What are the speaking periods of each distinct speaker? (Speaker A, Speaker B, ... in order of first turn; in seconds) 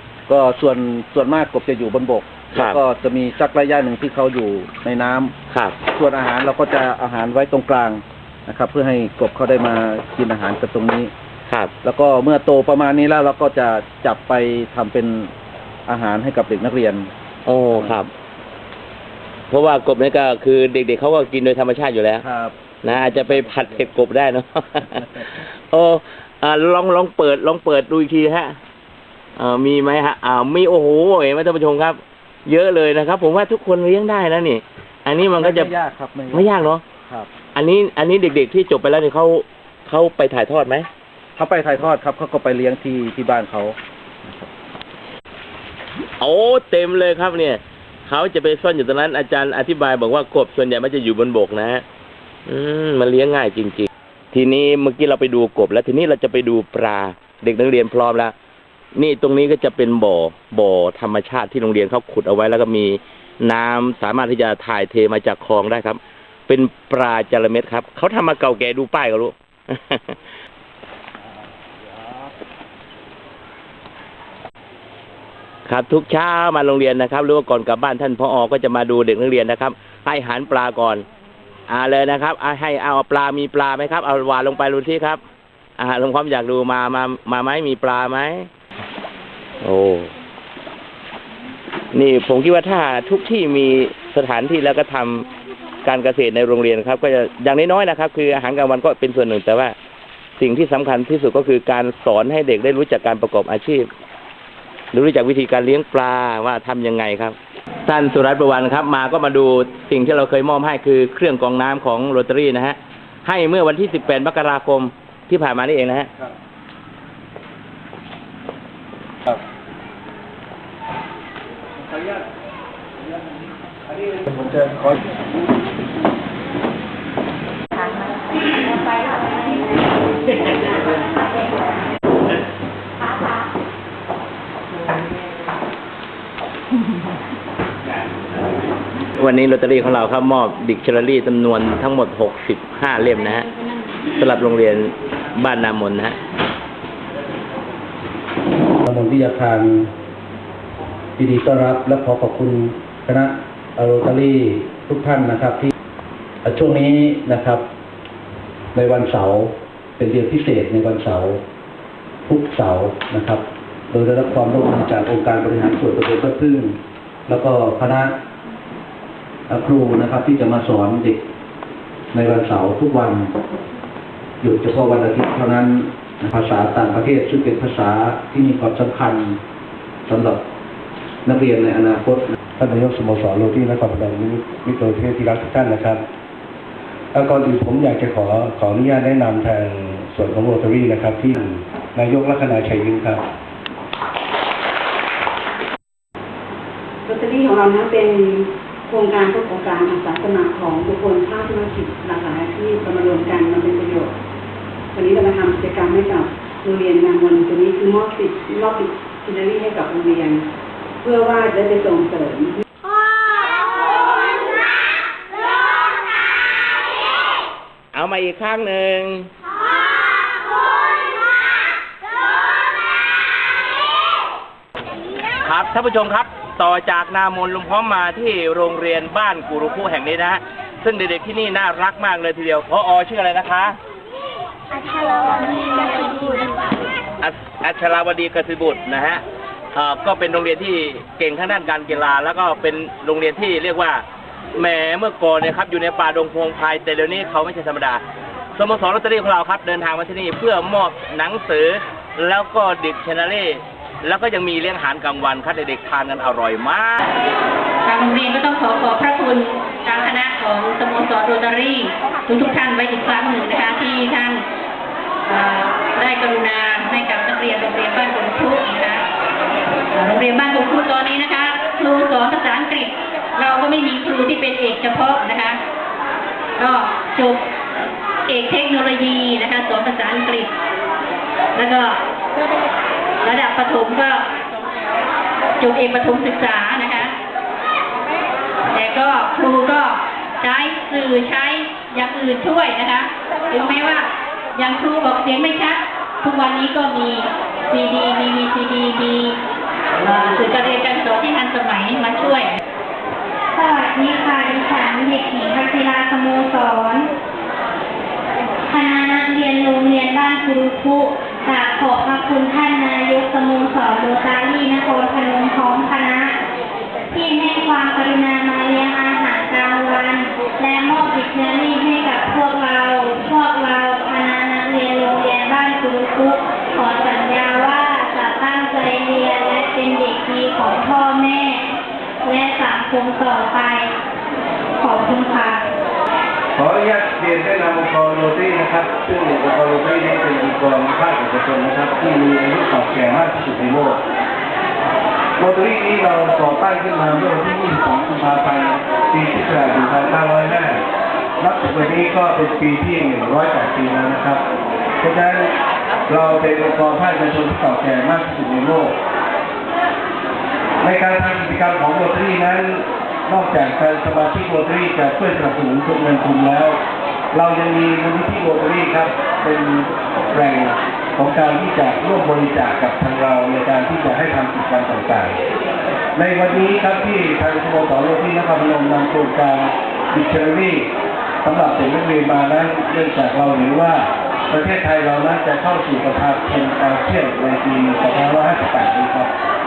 Speaker A: 0.3-5.3, 5.9-11.1, 11.8-15.3, 15.9-17.1, 17.7-18.0, 22.2-23.9, 24.9-25.3, 35.4-36.5, 41.4-43.8, 121.8-122.2, 123.0-124.3, 148.8-149.9, 151.2-155.7, 156.4-157.7, 158.7-161.4, 162.2-168.1, 169.5-171.2, 172.1-173.3, 174.4-179.4, 180.1-180.4, 181.2-182.3
Speaker B: 2.5-2.8, 5.5-5.8, 17.4-18.1, 19.5-22.2, 22.8-28.6, 29.4-35.7, 36.3-36.8, 37.5-40.9, 46.2-51.8, 52.5-58.3, 59.0-70.1, 75.7-81.0, 81.7-85.2, 85.8-88.5, 89.6-90.1, 91.9-95.3, 95.8-99.7, 100.4-103.9, 104.9-107.3, 107.9-116.1, 139.2-143.5, 144.1-146.2, 217.9-219.3, 225.4-233.8, 237.2-239.2, 239.7-244.0, 244.6-248.0, 248.6-257.0
Speaker C: 124.4-124.9, 182.6-186.0, 187.1-193.2, 336.5-344.0, 345.4-350.8, 351.4-354.4, 355.0-355.5, 356.1-358.9, 360.8-366.8, 367.3-375.4, 376.1-380.9, 381.4-389.3
Speaker D: 197.0-204.1, 204.9-210.5, 211.0-212.5
Speaker E: 257.8-264.4, 265.2-269.0, 269.9-275.6, 276.6-277.4, 278.2-280.5, 281.5-282.0, 283.2-284.3, 285.6-287.1, 288.7-299.4, 300.0-302.6
Speaker F: 303.5-307.1, 308.6-316.4, 317.1-331.7, 332.2-333.9, 334.8-335.7